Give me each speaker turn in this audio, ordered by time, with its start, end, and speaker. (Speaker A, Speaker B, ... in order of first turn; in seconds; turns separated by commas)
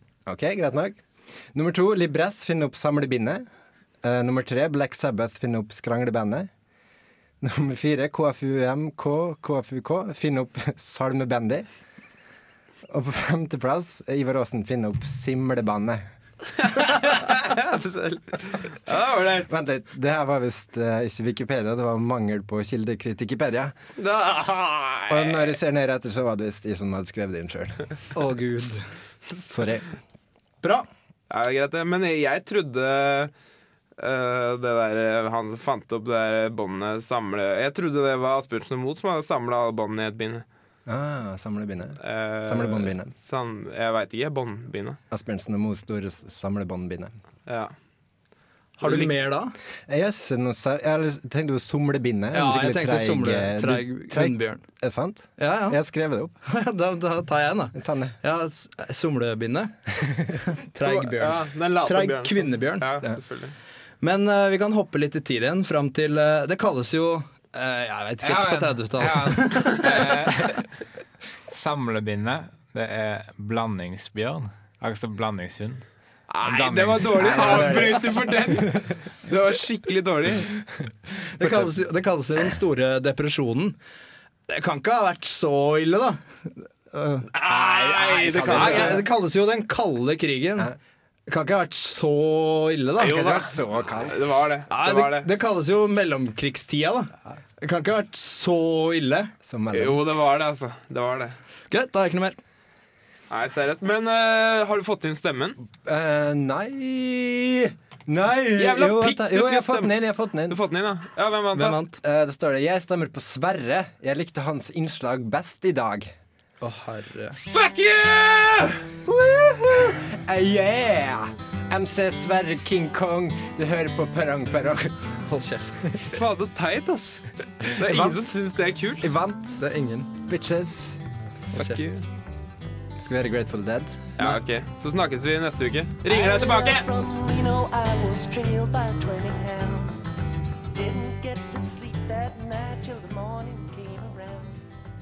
Speaker A: 0.3-3.5, Speaker A: 4.0-6.5, Speaker A: 7.4-11.7, Speaker A: 12.9-16.0, Speaker B: 16.6-19.5, Speaker A: 19.5-23.8, Speaker B: 24.0-25.5, Speaker A: 25.1-27.9, Speaker C: 28.1-28.8, Speaker A: 29.3-29.9, Speaker C: 30.6-30.9, Speaker B: 31.3-33.3, Speaker B: 34.0-40.4, Speaker A: 40.9-43.1, Speaker B: 42.0-45.0, Speaker A: 45.1-47.1, Speaker B: 47.5-47.7, Speaker C: 48.8-49.5, Speaker B: 48.8-49.1, Speaker A: 49.9-56.4, Speaker C: 52.3-54.6, Speaker C: 55.4-55.8, Speaker C: 56.5-59.8, Speaker A: 57.8-58.2, Speaker A: 60.0-60.4, Speaker C: 60.6-63.0, Speaker B: 60.8-63.5, Speaker C: 64.0-70.5, Speaker D: 68.2-70.7, Speaker D: 71.5-75.9, Speaker B: 76.3-80.5, Speaker D: 76.4-77.6, Speaker A: 77.2-78.9, Speaker A: 80.8-81.7, Speaker C: 81.4-83.8, Speaker C: 84.5-87.3, Speaker B: 87.3-89.0, Speaker A: 87.4-89.0, Speaker C: 88.4-90.7, Speaker C: 91.3-93.2, Speaker A: 93.0-94.3, Speaker B: 93.0-95.3, Speaker C: 94.7-99.3, Speaker A: 99.4-100.0, Speaker B: 99.7-101.4, Speaker C: 101.7-102.4, Speaker B: 103.3-105.6, Speaker A: 105.7-110.6, Speaker B: 108.6-109.9, Speaker B: 110.5-111.8, Speaker C: 111.5-112.0, Speaker A: 112.0-116.1, Speaker C: 116.6-117.4, Speaker B: 117.5-118.8, Speaker A: 119.1-125.2, Speaker C: 125.3-126.0, Speaker B: 126.1-129.1, Speaker A: 127.8-128.3, Speaker A: 129.0-129.6, Speaker C: 129.6-130.1, Speaker A: 130.2-131.0, Speaker B: 131.5-132.0, Speaker C: 131.6-131.9, Speaker A: 133.0-134.4, Speaker B: 134.2-136.9, Speaker E: 136.1-140.2, Speaker E: 140.7-144.6